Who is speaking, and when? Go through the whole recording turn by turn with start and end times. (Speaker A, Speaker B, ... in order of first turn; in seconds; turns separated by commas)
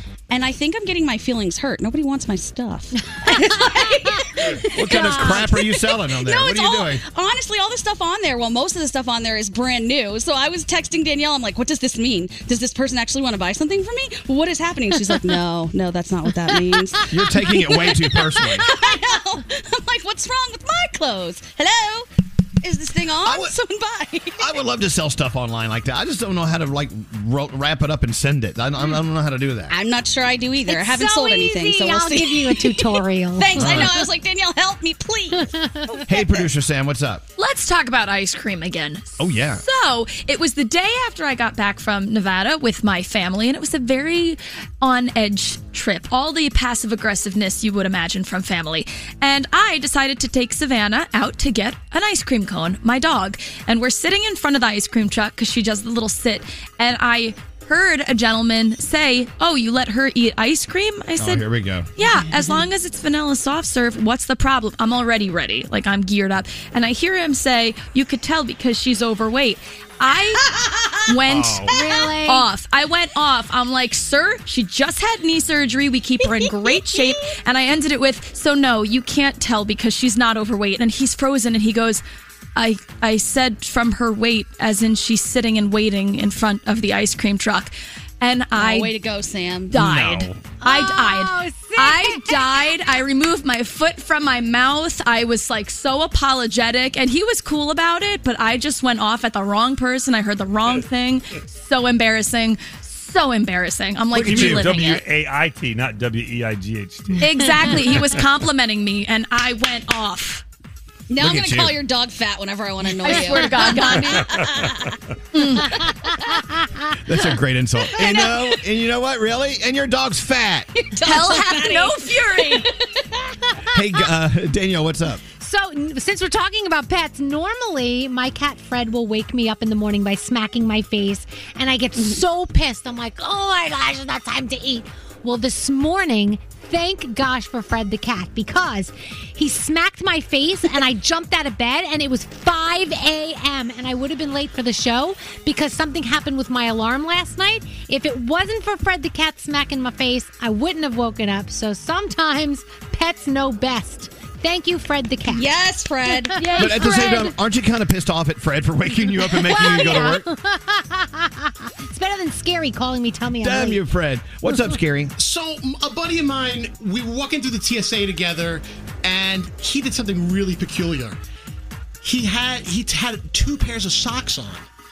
Speaker A: 0.3-22.1, Speaker B: 4.7-7.0, Speaker C: 5.1-5.4, Speaker B: 17.1-18.7, Speaker A: 22.6-24.5, Speaker B: 23.2-23.5, Speaker B: 24.4-29.7, Speaker A: 29.7-36.5, Speaker C: 30.7-34.0, Speaker B: 33.5-33.9, Speaker C: 35.4-35.9, Speaker B: 36.0-37.2, Speaker D: 37.4-61.4, Speaker B: 39.2-39.6, Speaker B: 61.2-61.9, Speaker D: 62.0-70.5, Speaker A: 70.6-71.0, Speaker D: 71.1-82.0, Speaker C: 71.7-72.5, Speaker A: 76.4-77.1, Speaker D: 82.5-88.9, Speaker A: 88.5-89.8, Speaker D: 89.7-105.0, Speaker B: 89.8-90.3, Speaker C: 90.6-92.6, Speaker B: 104.1-104.8, Speaker E: 104.2-108.1, Speaker C: 107.2-107.7, Speaker D: 107.2-110.4, Speaker A: 111.1-115.0, Speaker B: 111.2-111.8, Speaker D: 113.0-114.5, Speaker D: 115.3-115.9, Speaker C: 115.7-116.4, Speaker B: 117.0-120.7, Speaker A: 120.8-122.7, Speaker D: 121.0-122.7, Speaker B: 123.7-125.2, Speaker C: 125.4-155.5, Speaker A: 155.3-156.4, Speaker C: 156.1-157.3, Speaker D: 156.4-157.2, Speaker B: 156.6-160.2, Speaker C: 159.3-163.8, Speaker B: 163.4-165.1, Speaker F: 165.2-171.2, Speaker F: 172.0-174.6